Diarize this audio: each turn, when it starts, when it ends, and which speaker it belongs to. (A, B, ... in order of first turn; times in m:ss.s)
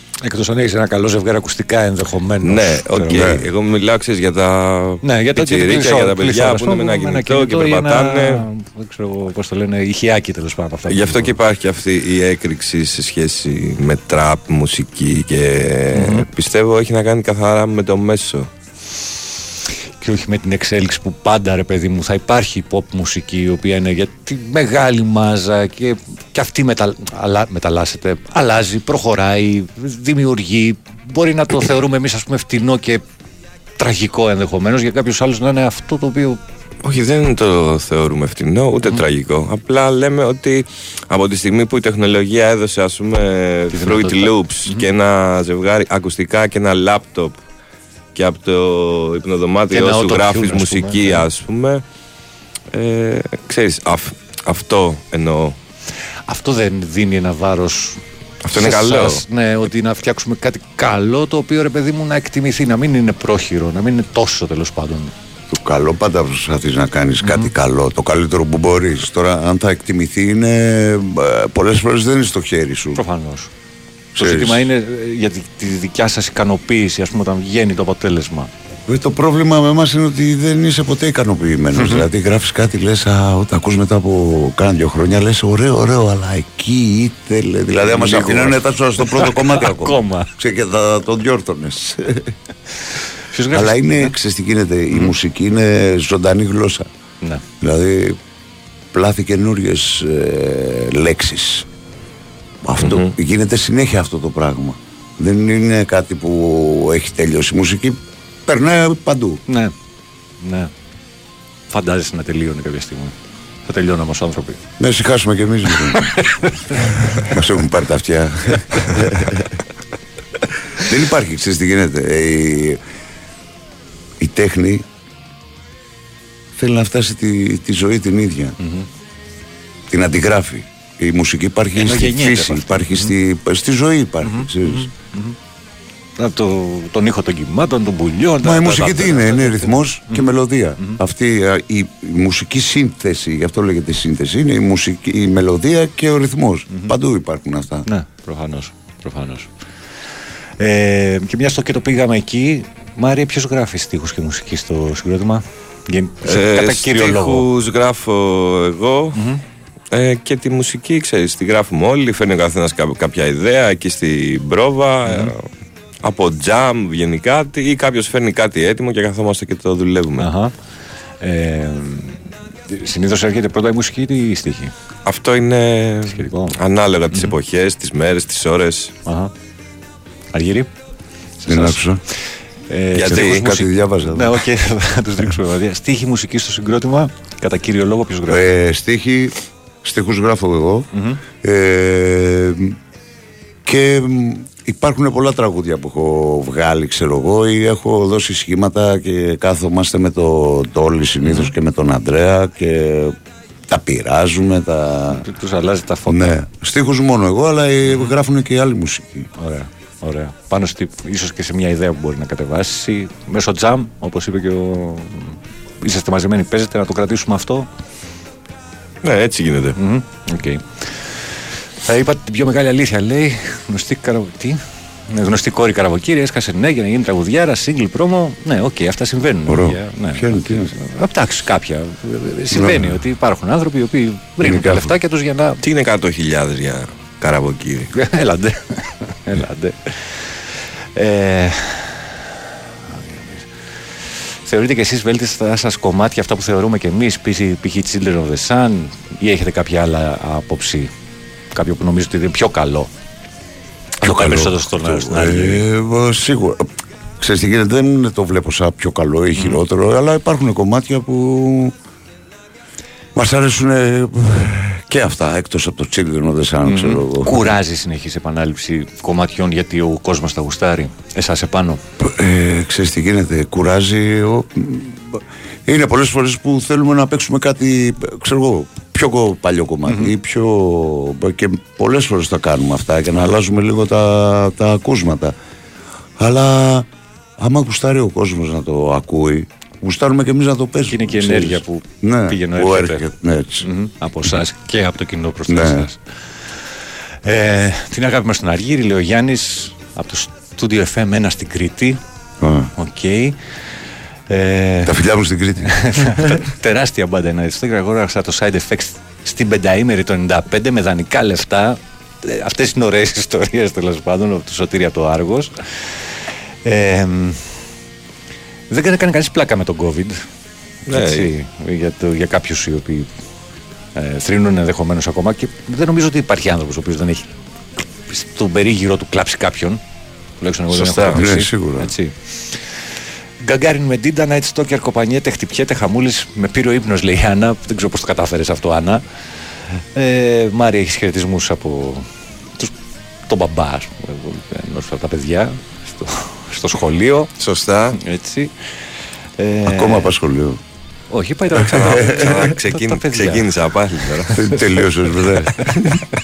0:00.2-0:03.4 A
0:02.4-0:08.5 B
0:03.1-0:03.5 C
0:05.0-0:11.4 A
0:10.9-0:18.5 B
0:15.9-0:16.3 A
0:20.0-0:33.0 A
0:33.8-0:36.4 A
0:36.8-0:47.4 B
0:43.7-0:44.9 A
0:48.2-0:51.8 B
0:49.7-0:51.3 A
0:52.7-0:55.6 B
0:56.3-0:58.0 A
0:58.4-0:59.2 B
0:58.5-1:05.1 A
1:05.5-1:13.0 C
1:07.2-1:07.5 A
1:13.0-1:13.5 A
1:14.2-1:14.7 C
1:14.2-1:18.5 A
1:18.9-1:32.3 C
1:21.8-1:22.1 A
1:27.8-1:30.3 A
1:33.3-1:34.2 A
1:33.5-1:36.9 C
1:37.6-1:38.2 C
1:38.9-1:41.7 C
1:42.6-1:49.4 C
1:42.8-1:43.1 B
1:49.5-1:49.7 A
1:50.4-1:50.7 A
1:51.7-1:53.2 A
1:53.7-1:54.6 A
1:54.8-1:56.0 C
1:55.9-1:56.8 A
1:57.2-1:59.4 C
2:00.8-2:02.8 C
2:04.2-2:04.8 C
2:06.6-2:08.6 C
2:08.6-2:08.9 A
2:09.9-2:14.9 C
2:11.8-2:13.1 A
2:14.2-2:15.4 A
2:16.2-2:20.3 A
2:18.4-2:27.9 C
2:26.7-2:27.0 A
2:27.8-2:29.5 A
2:30.6-2:37.5 A
2:36.2-2:39.2 B
2:39.2-2:39.4 A
2:39.9-2:45.5 B
2:45.1-2:45.3 A
2:46.0-2:50.3 B
2:50.2-2:50.5 A
2:51.2-2:54.7 A
2:55.1-2:58.9 B
2:56.1-2:56.6 A
2:59.1-2:59.3 A
3:00.3-3:00.7 A
3:01.4-3:01.8 A
3:01.5-3:02.0 C
3:02.7-3:08.5 A
3:03.0-3:03.6 B
3:03.0-3:04.4 C
3:08.3-3:10.9 C
3:10.9-3:11.2 A
3:11.4-3:12.8 C
3:13.7-3:23.1 C
3:21.2-3:21.5 A
3:23.7-3:25.3 C
3:25.1-3:26.4 A
3:26.1-3:29.3 C
3:27.9-3:28.1 A
3:29.4-3:37.7 A
3:39.0-3:39.8 B
3:39.8-3:41.1 A
3:41.8-3:55.6 A
3:49.5-3:50.7 C
3:52.5-3:53.0 C
3:54.4-3:54.9 C
3:55.6-3:57.9 B
3:57.9-4:00.4 A
4:01.0-4:02.2 A
4:02.9-4:03.5 A
4:04.4-4:10.9 A
4:11.5-4:12.9 A
4:14.0-4:15.7 A
4:14.0-4:16.7 C
4:17.2-4:21.7 C
4:19.4-4:19.6 A
4:23.2-4:27.4 C
4:26.6-4:31.8 A
4:32.0-4:45.3 C
4:39.9-4:40.1 A
4:46.2-4:46.9 C
4:47.4-4:53.7 C
4:50.9-4:53.1 A
4:53.6-4:56.0 A
4:55.5-4:55.9 C
4:57.2-5:02.0 A
5:02.4-5:02.7 C
5:02.8-5:03.4 A
5:04.3-5:05.0 A
5:04.9-5:06.4 C
5:05.6-5:16.1 A
5:16.6-5:17.6 A
5:18.7-5:20.3 A
5:20.9-5:21.3 B
5:20.9-5:23.1 A
5:24.0-5:29.8 A
5:30.4-5:32.6 A
5:30.7-5:31.3 B
5:31.1-5:31.9 C
5:33.4-5:39.0 A
5:40.0-5:42.7 A
5:43.3-5:47.3 A
5:47.4-5:48.0 B
5:48.0-5:48.7 A
5:49.4-5:50.1 A
5:49.7-5:50.6 C
5:51.1-5:53.5 A
5:51.6-5:52.5 C
5:51.7-5:54.3 B
5:54.1-5:55.9 A
5:54.3-5:55.7 C